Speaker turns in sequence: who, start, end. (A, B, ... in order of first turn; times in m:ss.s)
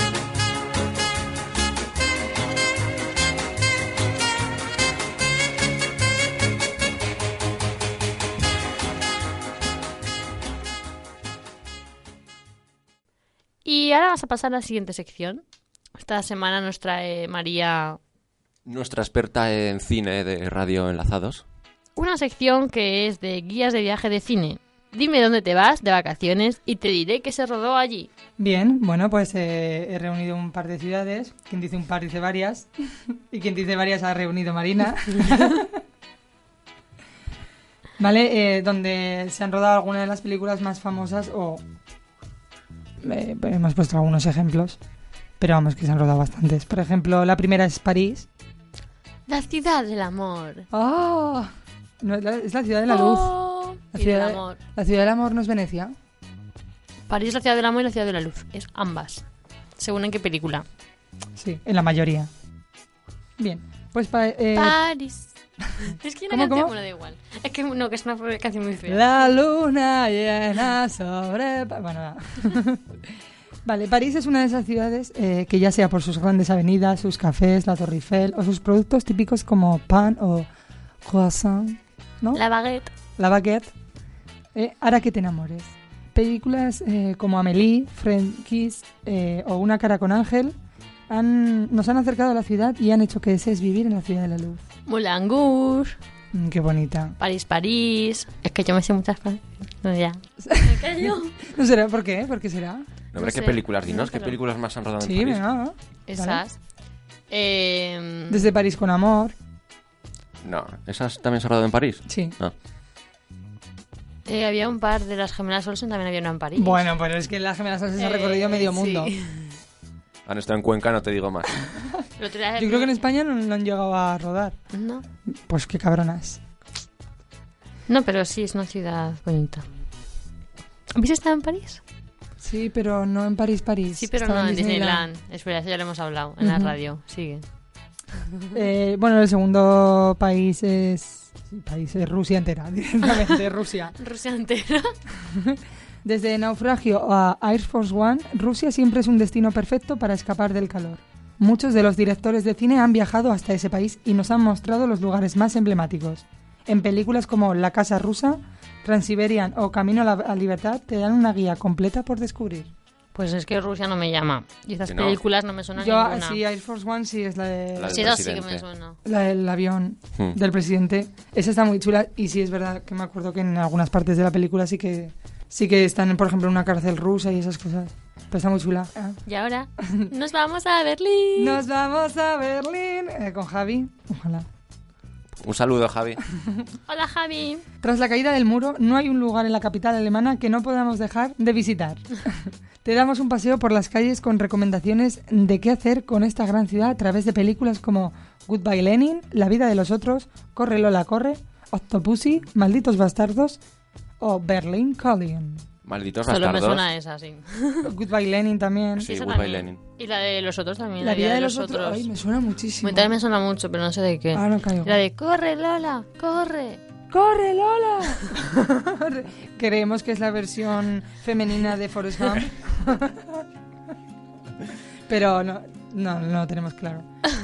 0:13.6-0:15.4 A
0:16.0-0:18.0 A
0:18.6-0:21.4 B
0:22.0-0:28.1 A
0:28.4-0:35.8 C
0:38.0-0:41.6 C
0:43.0-0:44.8 C
0:45.4-0:48.3 C
0:49.3-0:50.7 A
0:50.7-0:51.5 C
0:52.0-0:53.3 C
0:52.9-0:54.6 A
0:53.9-0:55.9 C
0:57.1-0:59.2 A
0:59.8-1:00.6 A
1:01.4-1:02.3 C
1:03.4-1:04.8 C
1:04.5-1:09.3 A
1:06.3-1:06.7 C
1:08.9-1:13.0 C
1:13.6-1:20.5 C
1:21.0-1:22.4 C
1:22.3-1:22.9 A
1:23.2-1:23.7 C
1:24.5-1:30.6 C
1:31.1-1:34.6 C
1:34.9-1:36.0 A
1:36.3-1:37.2 C
1:37.2-1:41.4 A
1:40.4-1:42.9 C
1:43.1-1:45.4 B
1:43.1-1:44.4 A
1:45.0-1:46.4 C
1:46.1-1:46.6 A
1:47.3-1:48.5 A
1:48.3-1:49.3 C
1:50.4-1:52.5 B
1:52.1-1:52.4 C
1:54.2-1:56.8 A
1:56.6-1:59.1 C
1:58.0-1:59.6 A
2:00.2-2:01.6 B
2:02.2-2:03.0 A
2:02.6-2:04.6 C
2:04.7-2:05.0 A
2:05.3-2:06.4 C
2:07.9-2:09.6 A
2:10.9-2:11.8 A
2:12.4-2:15.1 C
2:13.9-2:17.4 A
2:16.4-2:16.7 C
2:18.5-2:23.9 C
2:24.0-2:24.9 A
2:25.3-2:42.7 C
2:43.1-2:46.4 A
2:44.8-2:45.2 B
2:45.8-2:48.2 C
2:47.8-2:48.6 B
2:47.9-2:49.0 A
2:49.0-2:59.2 C
2:59.2-3:01.6 A
2:59.8-3:00.1 C
3:01.4-3:04.4 C
3:05.4-3:06.2 B
3:06.4-3:06.6 C
3:06.9-3:07.6 A
3:07.8-3:23.6 C
3:24.2-3:25.6 C
3:25.8-3:26.8 B
3:26.2-3:27.9 A
3:27.8-3:29.1 C
3:29.0-3:29.8 B
3:29.1-3:32.1 A
3:31.0-3:33.1 C
3:32.8-3:36.8 A
3:34.3-3:35.0 C
3:37.1-3:43.4 C
3:45.1-3:47.0 C